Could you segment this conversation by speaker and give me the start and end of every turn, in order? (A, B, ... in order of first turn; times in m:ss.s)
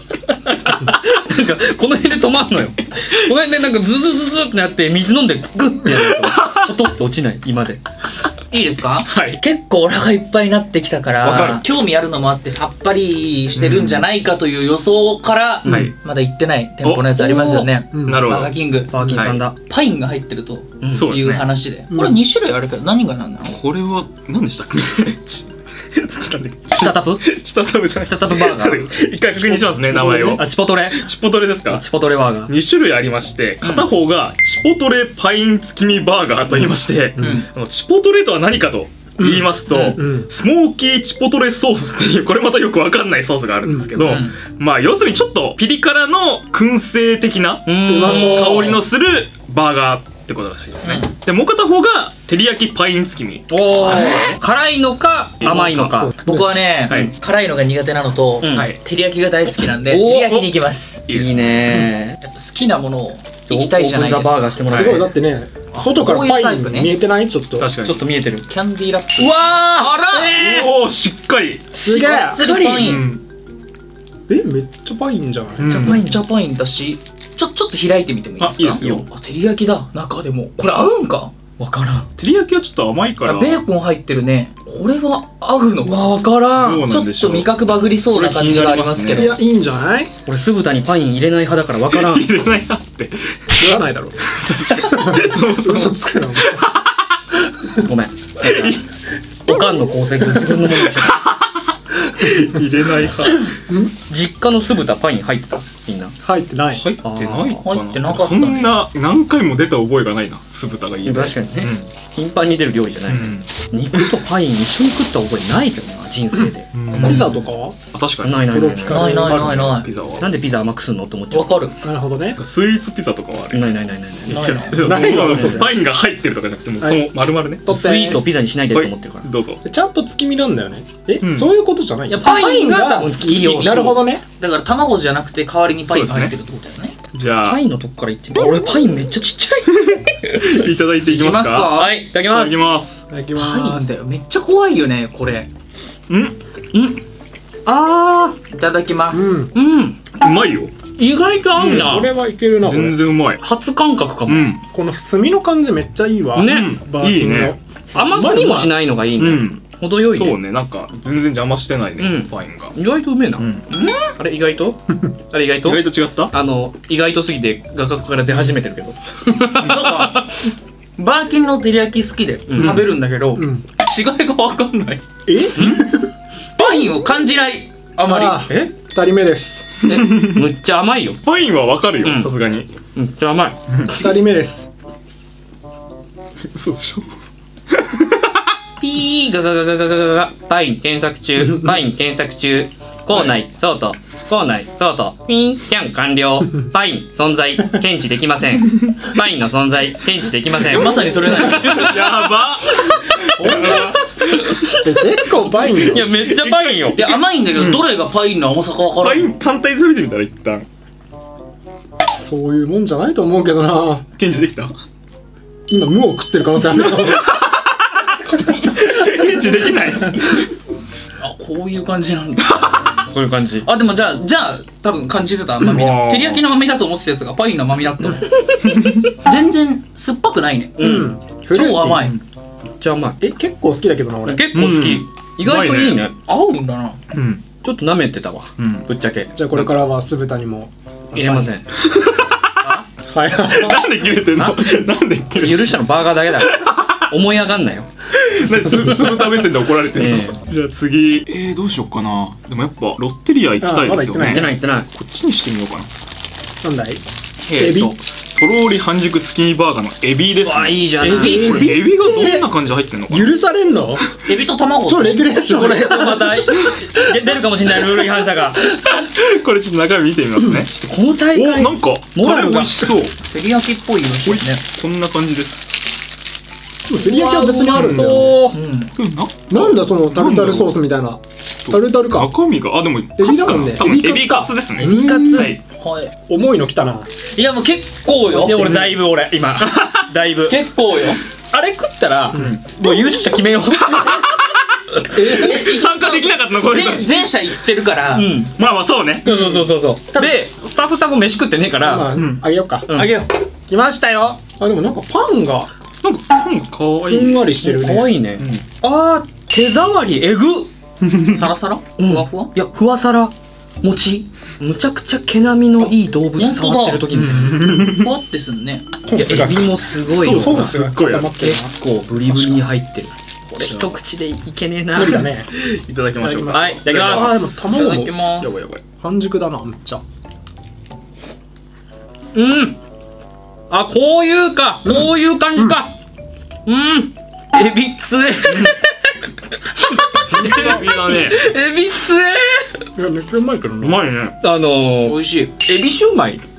0:00.3-0:07.8 A
0:06.2-0:06.6 B
0:08.5-0:23.6 C
0:09.1-0:09.4 B
0:11.2-0:11.6 A
0:13.5-0:14.1 B
0:15.6-0:15.9 A
0:15.7-0:15.9 B
0:16.8-0:18.6 B
0:17.9-0:18.4 D
0:18.9-0:19.6 A
0:19.1-0:19.4 B
0:20.8-0:21.1 A
0:20.9-0:21.4 B
0:21.9-0:22.2 D
0:23.5-0:31.9 B
0:26.8-0:27.2 A
0:28.0-0:29.0 A
0:29.5-0:31.1 A
0:29.7-0:30.4 D
0:31.7-0:32.5 A
0:32.5-0:54.4 B
0:33.6-0:33.9 C
0:37.2-0:37.5 C
0:39.2-0:40.3 D
0:43.6-0:44.2 D
0:44.0-0:44.4 C
0:47.7-0:48.8 A
0:47.9-0:48.8 D
0:50.8-0:51.1 C
0:53.5-0:56.1 A
0:55.4-0:56.0 B
0:55.6-0:56.6 D
0:56.2-1:01.0 C
0:58.4-0:58.7 A
0:58.5-0:58.8 B
0:59.9-1:00.5 A
1:01.1-1:01.8 B
1:01.1-1:02.2 A
1:02.2-1:05.0 C
1:03.5-1:05.1 A
1:04.6-1:07.7 D
1:05.7-1:07.0 C
1:07.6-1:08.0 B
1:07.8-1:08.5 A
1:08.5-1:10.4 C
1:09.2-1:10.8 A
1:10.3-1:11.7 B
1:11.7-1:12.4 D
1:11.8-1:13.0 C
1:11.9-1:13.0 A
1:12.8-1:13.2 B
1:14.3-1:15.9 D
1:15.6-1:16.0 B
1:15.6-1:16.3 A
1:15.7-1:21.3 C
1:18.4-1:19.0 B
1:18.8-1:19.0 A
1:21.6-1:22.1 A
1:22.2-1:23.6 B
1:23.2-1:26.2 C
1:25.8-1:26.9 A
1:26.6-1:27.5 B
1:26.9-1:29.4 C
1:28.1-1:29.4 B
1:29.1-1:30.1 D
1:30.3-1:32.3 A
1:31.9-1:33.2 B
1:33.6-1:36.6 D
1:34.3-1:36.8 B
1:35.6-1:36.3 C
1:37.8-1:38.8 A
1:38.4-1:38.8 B
1:39.4-1:41.2 A
1:40.7-1:41.5 B
1:42.1-1:43.5 B
1:43.8-1:46.1 A
1:46.2-1:46.8 D
1:46.8-1:51.9 B
1:47.0-1:47.6 A
1:47.6-1:48.8 C
1:51.0-1:57.4 A
1:53.1-1:54.1 B
1:56.7-2:00.3 B
1:56.9-1:57.8 D
1:58.2-1:59.5 A
1:58.5-1:59.4 D
1:58.9-1:59.9 C
2:00.2-2:01.6 A
2:01.3-2:01.8 C
2:01.8-2:02.4 D
2:02.4-2:03.7 B
2:03.5-2:05.7 A
2:04.3-2:04.8 C
2:04.7-2:07.7 B
2:04.7-2:05.7 D
2:06.8-2:07.1 D
2:07.6-2:08.2 D
2:07.7-2:09.3 A
2:08.7-2:09.6 B
2:09.6-2:14.2 D
2:11.2-2:11.5 B
2:12.1-2:14.0 A
2:14.4-2:17.0 C
2:15.9-2:16.3 B
2:17.1-2:17.6 B
2:17.4-2:20.7 A
2:19.8-2:21.7 B
2:21.1-2:22.0 C
2:21.7-2:22.7 A
2:22.2-2:23.0 B
2:23.1-2:23.9 D
2:23.4-2:25.5 C
2:26.1-2:26.4 B
2:26.7-2:27.0 A
2:27.7-2:28.4 A
2:28.5-2:29.5 C
2:29.1-2:29.5 D
2:29.5-2:30.0 A
2:30.2-2:30.7 B
2:31.0-2:32.1 A
2:31.6-2:32.0 B
2:31.6-2:33.0 D
2:32.6-2:33.4 B
2:33.4-2:34.5 A
2:34.3-2:34.6 B
2:34.7-2:38.7 D
2:36.3-2:36.8 A
2:36.4-2:37.6 B
2:37.9-2:40.4 A
2:39.2-2:42.7 B
2:42.0-2:43.5 A
2:43.4-2:43.6 B
2:43.7-2:44.1 C
2:44.1-2:50.2 A
2:45.6-2:46.3 B
2:49.6-2:50.2 C
2:51.0-2:55.0 C
2:52.5-2:52.8 A
2:52.6-2:52.9 B
2:53.4-2:53.6 D
2:55.3-2:55.7 D
2:55.6-2:55.9 A
2:56.6-2:58.5 C
2:58.0-2:59.7 D
2:58.5-2:58.7 A
2:59.9-3:01.2 A
2:59.9-3:00.4 B
3:01.2-3:02.7 B
3:02.0-3:02.3 A
3:03.0-3:03.6 A
3:03.7-3:04.0 B
3:03.9-3:04.7 D
3:06.5-3:07.1 B
3:07.7-3:08.2 B
3:08.8-3:22.2 A
3:20.5-3:22.0 C
3:21.4-3:24.1 B
3:23.2-3:27.0 A
3:23.4-3:24.0 D
3:24.8-3:26.1 D
3:25.9-3:27.9 B
3:27.0-3:29.3 C
3:29.0-3:30.7 B
3:32.2-3:34.1 D
3:34.2-3:34.7 B
3:35.7-3:37.3 D
3:36.8-3:37.6 B
3:38.4-3:40.5 B
3:41.2-3:42.9 C
3:43.0-3:43.7 A
3:43.6-3:48.3 C
3:45.6-3:46.4 B
3:48.6-3:49.1 B
3:49.2-3:50.8 C
3:50.8-3:51.2 A
3:50.8-3:52.0 D
3:51.5-3:52.2 C
3:52.8-3:53.2 A
3:53.2-3:54.4 D
3:54.2-3:56.1 A
3:54.5-3:56.1 B
3:56.3-3:57.0 C
3:57.1-3:57.4 B
3:57.6-3:59.7 A
3:58.6-3:58.9 B
3:59.3-4:01.5 D
4:01.2-4:01.7 A
4:01.9-4:02.7 B
4:03.1-4:03.8 D
4:03.4-4:07.0 B
4:04.4-4:04.8 A
4:05.3-4:07.9 A
4:08.1-4:15.9 B
4:08.6-4:09.2 D
4:09.9-4:10.4 A
4:13.6-4:14.5 D
4:14.2-4:14.9 A
4:16.6-4:17.0 D
4:17.5-4:23.3 B
4:17.5-4:18.0 D
4:20.4-4:21.7 A
4:21.0-4:22.5 D
4:21.0-4:21.6 C
4:23.1-4:24.1 D
4:24.3-4:25.2 C
4:24.9-4:26.4 D
4:25.5-4:28.7 A
4:28.8-4:30.7 B
4:30.5-4:33.0 A
4:31.3-4:33.2 B
4:33.3-4:34.6 C
4:34.2-4:35.7 B
4:36.9-4:38.4 D
4:37.0-4:38.6 A
4:37.7-4:38.3 B
4:38.5-4:38.9 C
4:39.0-4:40.8 B
4:39.5-4:42.3 D
4:41.7-4:45.6 B
4:43.2-4:45.6 D
4:44.8-4:45.6 A
4:45.8-4:46.1 C
4:46.3-4:47.1 D
4:47.3-4:48.8 C
4:48.3-4:50.6 A
4:50.5-4:51.2 C
4:51.5-4:54.4 A
4:52.4-4:52.6 B
4:53.9-4:54.2 B
4:55.1-4:55.8 D
4:55.4-4:57.2 B
4:55.4-4:58.4 C
4:58.1-4:58.5 A
4:58.6-4:59.3 B
4:59.2-5:02.2 A
4:59.3-5:00.4 D
5:01.8-5:02.9 D
5:02.1-5:02.4 B
5:02.9-5:03.2 A
5:02.9-5:03.3 C
5:03.7-5:05.7 D
5:06.0-5:07.4 B
5:07.1-5:08.1 D
5:07.4-5:10.7 A
5:08.4-5:08.6 B
5:11.0-5:11.4 B
5:11.3-5:12.5 C
5:12.0-5:17.7 A
5:16.4-5:17.1 C
5:17.2-5:18.1 B
5:17.7-5:18.9 C
5:19.0-5:21.7 D
5:19.1-5:20.8 A
5:20.1-5:21.3 B
5:21.4-5:25.8 A
5:22.3-5:22.6 D
5:23.5-5:24.0 B
5:25.0-5:25.5 D
5:25.7-5:27.8 B
5:26.2-5:28.2 D
5:26.5-5:27.8 A
5:27.7-5:28.5 C
5:28.4-5:28.8 B
5:29.0-5:30.0 D
5:32.3-5:32.8 A
5:33.7-5:36.0 A
5:34.9-5:35.8 D
5:36.7-5:42.9 A
5:40.3-5:41.4 B
5:43.0-5:44.0 D
5:43.8-5:44.4 B
5:44.4-5:46.4 A
5:45.0-5:45.5 C